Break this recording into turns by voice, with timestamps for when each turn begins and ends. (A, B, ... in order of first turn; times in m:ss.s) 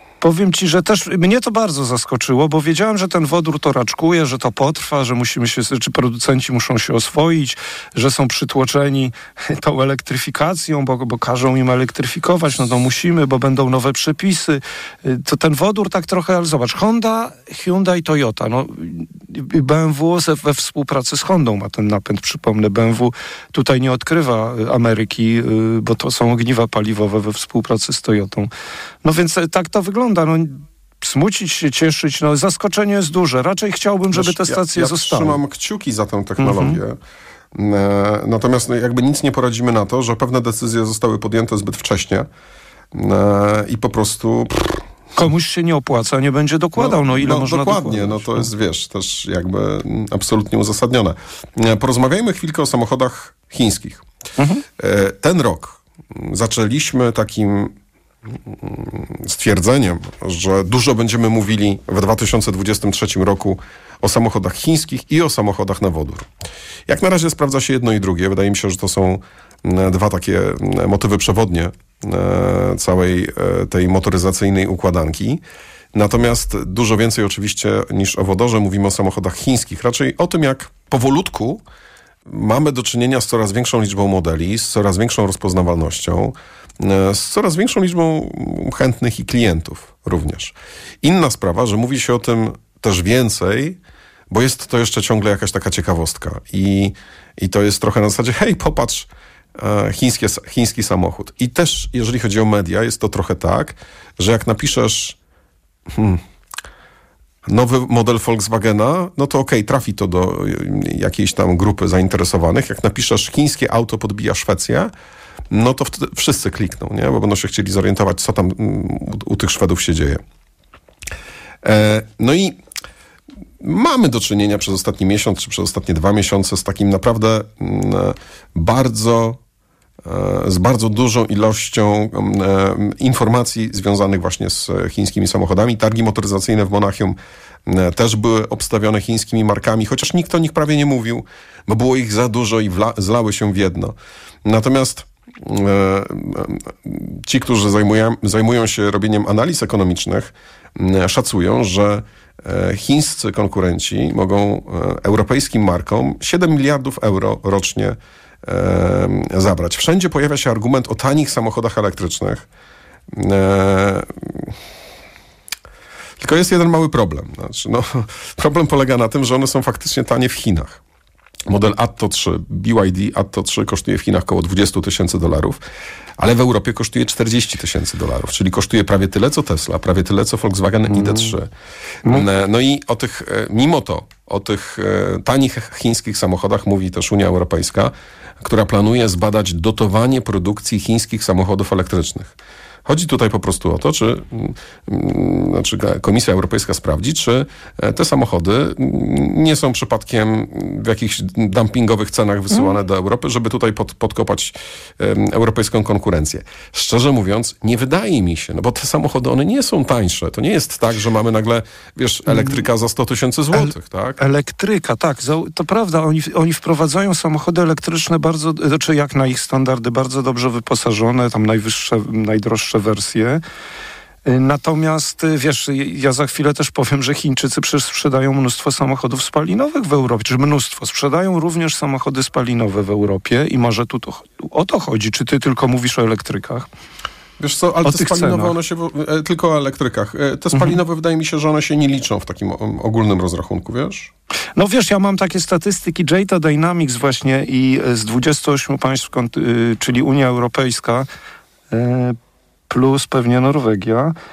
0:00.2-0:28.5 A
0:29.0-0:35.4 A
0:34.1-0:37.0 B
0:36.4-0:36.8 A
0:37.6-0:42.3 B
0:42.9-0:44.8 B
0:45.2-0:48.5 A
0:46.8-0:54.0 B
0:54.4-0:54.6 A
0:54.8-0:57.7 B
0:58.4-1:06.3 B
1:06.9-1:15.4 B
1:15.9-1:21.6 B
1:22.3-1:33.8 B
1:34.3-1:45.2 B
1:45.9-1:46.2 B
1:47.5-1:54.9 B
1:55.5-2:00.2 B
2:01.6-2:02.6 B
2:03.6-2:09.4 B
2:10.0-2:23.9 B
2:24.4-2:42.4 B
2:43.1-2:44.5 B
2:46.2-2:50.8 B
2:51.5-2:55.6 B
2:56.2-3:01.5 B
3:00.9-3:01.3 A
3:02.1-3:12.3 B
3:12.8-3:34.2 B
3:32.3-3:32.6 A
3:33.5-3:43.4 A
3:44.2-3:56.7 A
3:57.4-4:04.1 B
3:57.8-3:58.5 A
4:00.5-4:00.8 A
4:04.6-4:11.0 A
4:11.7-4:12.2 A
4:12.7-4:14.1 A